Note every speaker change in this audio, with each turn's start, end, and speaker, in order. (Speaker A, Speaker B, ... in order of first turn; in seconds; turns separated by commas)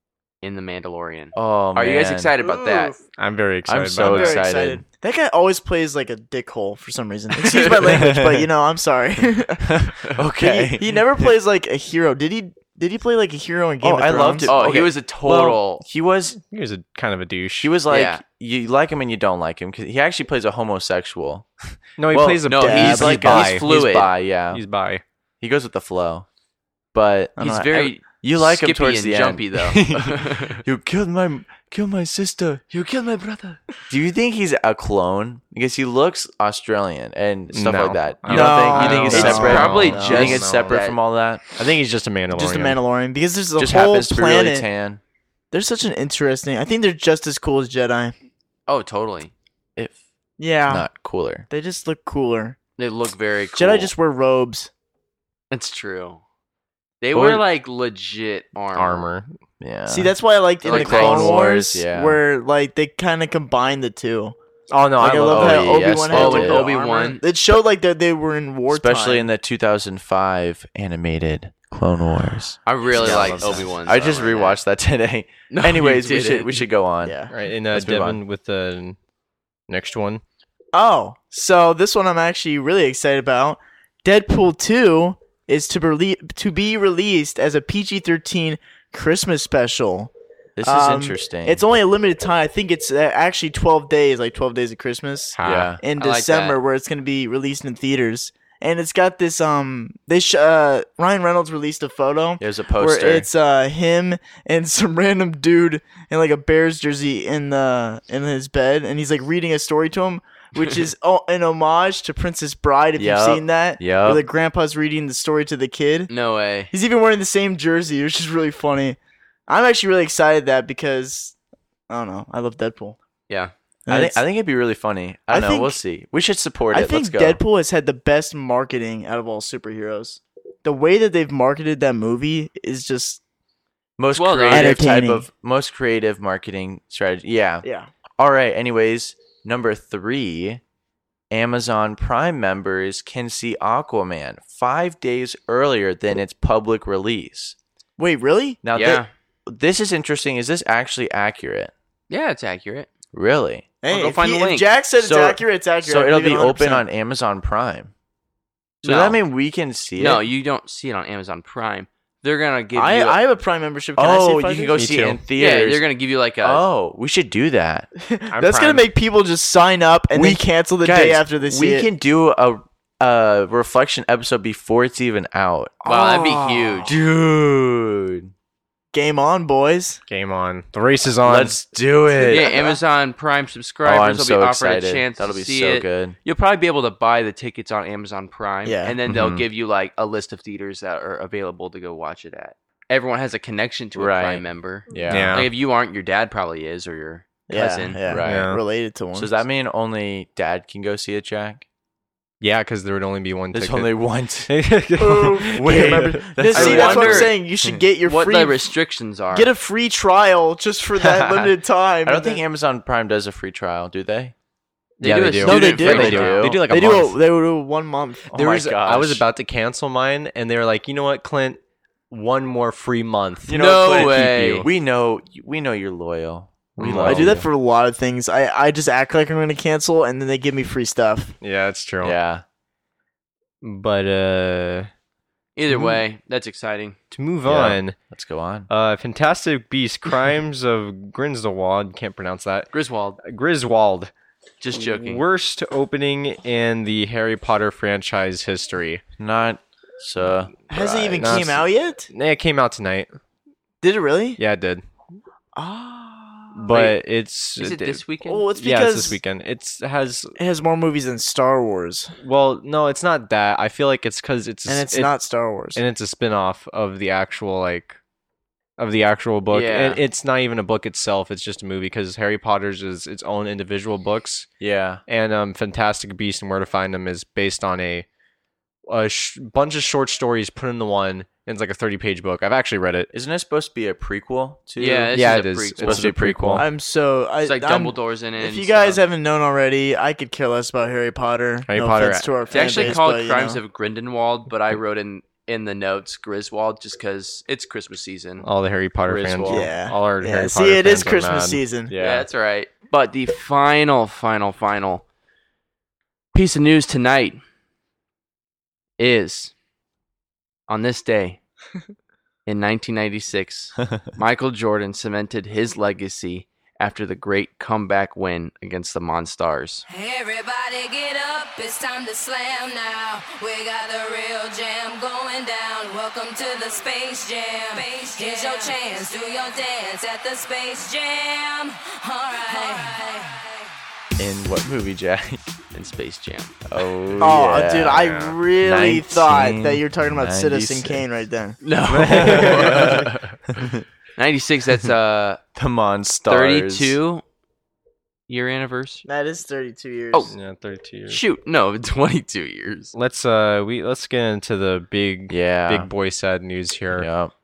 Speaker A: 0.4-3.0, Speaker B: 1.3-2.3, Speaker C: 2.4-3.0, Speaker D: 3.2-4.4, Speaker B: 3.6-4.8, Speaker C: 4.0-14.5, Speaker A: 7.4-8.0, Speaker B: 7.8-8.5, Speaker B: 9.7-11.0, Speaker B: 13.8-16.4, Speaker A: 14.4-15.8, Speaker D: 16.4-17.7, Speaker B: 17.6-21.5, Speaker A: 17.9-18.2, Speaker D: 22.0-23.6, Speaker B: 22.1-22.4, Speaker A: 22.5-24.1, Speaker C: 22.6-23.5, Speaker B: 23.1-24.6, Speaker D: 24.5-25.0, Speaker B: 25.4-26.3, Speaker B: 26.9-27.4, Speaker C: 27.4-27.9, Speaker A: 27.4-30.6, Speaker B: 28.2-32.6, Speaker A: 32.7-33.6, Speaker B: 33.9-41.4, Speaker D: 37.5-40.8, Speaker C: 38.3-40.3, Speaker A: 38.7-41.0, Speaker D: 41.5-42.8, Speaker C: 42.3-44.7, Speaker B: 43.6-45.0, Speaker C: 45.5-48.1, Speaker A: 48.7-49.3, Speaker C: 50.4-50.9, Speaker B: 50.7-51.5, Speaker C: 51.5-52.6, Speaker A: 52.8-53.9, Speaker C: 53.5-54.7, Speaker A: 55.5-56.2, Speaker A: 57.0-59.0, Speaker B: 57.1-57.4, Speaker D: 58.7-59.3, Speaker B: 59.6-62.2, Speaker C: 59.9-64.3, Speaker A: 60.6-61.3, Speaker D: 64.7-65.8, Speaker C: 65.0-69.3, Speaker B: 65.0-66.7, Speaker A: 66.1-67.2, Speaker B: 68.7-77.2, Speaker A: 72.7-74.6, Speaker D: 73.0-73.6, Speaker A: 75.5-76.7, Speaker C: 77.0-77.3, Speaker D: 77.3-79.0, Speaker B: 77.7-78.2, Speaker D: 79.7-80.2, Speaker C: 80.7-90.1, Speaker B: 90.5-91.6, Speaker C: 90.6-116.1, Speaker D: 95.3-95.7, Speaker B: 95.4-95.8, Speaker A: 96.0-96.6, Speaker B: 102.4-103.3, Speaker B: 113.0-114.2, Speaker A: 116.1-116.7, Speaker C: 116.7-121.3, Speaker C: 121.9-123.0, Speaker C: 123.9-124.2, Speaker B: 123.9-127.4, Speaker C: 125.3-125.8, Speaker C: 126.7-133.2, Speaker B: 134.0-137.6, Speaker A: 134.1-134.8, Speaker C: 134.5-135.3, Speaker C: 137.6-137.9, Speaker B: 138.2-140.6, Speaker B: 141.3-147.6, Speaker C: 148.0-148.6, Speaker B: 148.6-151.7, Speaker A: 148.7-149.1, Speaker A: 152.1-152.9, Speaker B: 153.1-153.7, Speaker C: 153.8-156.8, Speaker A: 153.9-154.7, Speaker B: 155.0-157.9, Speaker B: 158.8-160.2, Speaker A: 158.8-159.2, Speaker A: 160.0-163.2, Speaker C: 162.7-165.2, Speaker B: 163.9-165.8, Speaker D: 164.8-165.2, Speaker A: 165.3-166.6, Speaker B: 166.4-167.9, Speaker C: 168.0-171.9, Speaker D: 168.3-168.9, Speaker B: 170.1-175.8, Speaker C: 175.8-176.9, Speaker A: 175.8-176.9, Speaker B: 176.8-178.3, Speaker C: 178.9-180.0, Speaker D: 180.1-181.6, Speaker B: 181.2-182.6, Speaker C: 182.2-182.8, Speaker A: 182.3-198.0, Speaker B: 183.8-186.2, Speaker C: 188.6-188.9, Speaker B: 189.1-189.5, Speaker B: 193.9-195.5, Speaker D: 195.1-195.5, Speaker C: 197.5-199.3, Speaker B: 198.1-198.4, Speaker D: 198.2-198.6, Speaker B: 199.1-201.6, Speaker D: 202.4-203.9, Speaker B: 203.5-204.5, Speaker D: 204.5-206.1, Speaker C: 205.0-208.7, Speaker B: 205.4-207.8, Speaker A: 206.5-207.4, Speaker A: 208.0-209.5, Speaker C: 209.3-212.4, Speaker B: 211.0-214.3, Speaker D: 215.0-217.2, Speaker A: 215.0-216.4, Speaker B: 215.4-216.6, Speaker C: 215.4-218.3, Speaker D: 218.3-221.6, Speaker B: 218.3-219.2, Speaker D: 222.1-224.7, Speaker B: 223.5-227.5, Speaker A: 223.5-224.7, Speaker D: 226.8-227.4, Speaker C: 227.0-231.3, Speaker D: 231.4-232.2, Speaker B: 232.0-232.4, Speaker D: 233.6-234.9, Speaker A: 235.6-237.0, Speaker D: 237.1-237.9, Speaker B: 237.4-238.7, Speaker D: 238.7-242.7, Speaker A: 242.7-243.2, Speaker D: 243.2-244.1, Speaker A: 244.6-245.2, Speaker D: 244.7-249.0, Speaker B: 249.2-251.6, Speaker D: 250.2-251.6, Speaker C: 250.7-252.1, Speaker D: 252.1-253.1, Speaker C: 253.8-254.4, Speaker D: 254.4-254.8, Speaker C: 255.6-256.9, Speaker D: 256.5-258.0, Speaker A: 257.6-258.5, Speaker C: 258.2-259.2, Speaker D: 258.5-260.3, Speaker C: 260.4-262.1, Speaker D: 262.2-265.1, Speaker C: 264.7-265.8, Speaker D: 265.7-268.0, Speaker D: 268.8-274.5, Speaker A: 269.5-270.0, Speaker B: 274.6-275.0, Speaker D: 275.1-278.1, Speaker D: 278.9-283.1, Speaker B: 283.1-286.7, Speaker A: 284.8-286.1, Speaker D: 285.1-286.7, Speaker C: 286.6-293.6, Speaker A: 287.4-289.0, Speaker D: 291.7-292.9, Speaker A: 292.5-298.4, Speaker D: 298.4-301.6, Speaker B: 299.1-299.7, Speaker C: 299.5-301.9, Speaker B: 301.9-302.3, Speaker A: 302.0-305.0, Speaker A: 306.3-307.4, Speaker A: 309.0-309.5, Speaker A: 310.7-311.4, Speaker A: 312.4-319.8, Speaker E: 319.9-333.5, Speaker B: 334.2-335.4, Speaker A: 335.7-336.6, Speaker B: 336.7-341.0, Speaker C: 337.2-341.6, Speaker D: 337.9-338.4, Speaker A: 341.6-343.4, Speaker D: 341.9-343.0, Speaker B: 342.1-343.8, Speaker A: 344.1-345.4, Speaker B: 345.5-347.0, Speaker A: 346.3-347.2, Speaker A: 348.3-349.0, Speaker C: 349.1-350.3, Speaker D: 350.3-351.2, Speaker A: 351.1-352.9, Speaker D: 352.9-357.1, Speaker B: 355.3-355.9, Speaker B: 356.9-357.3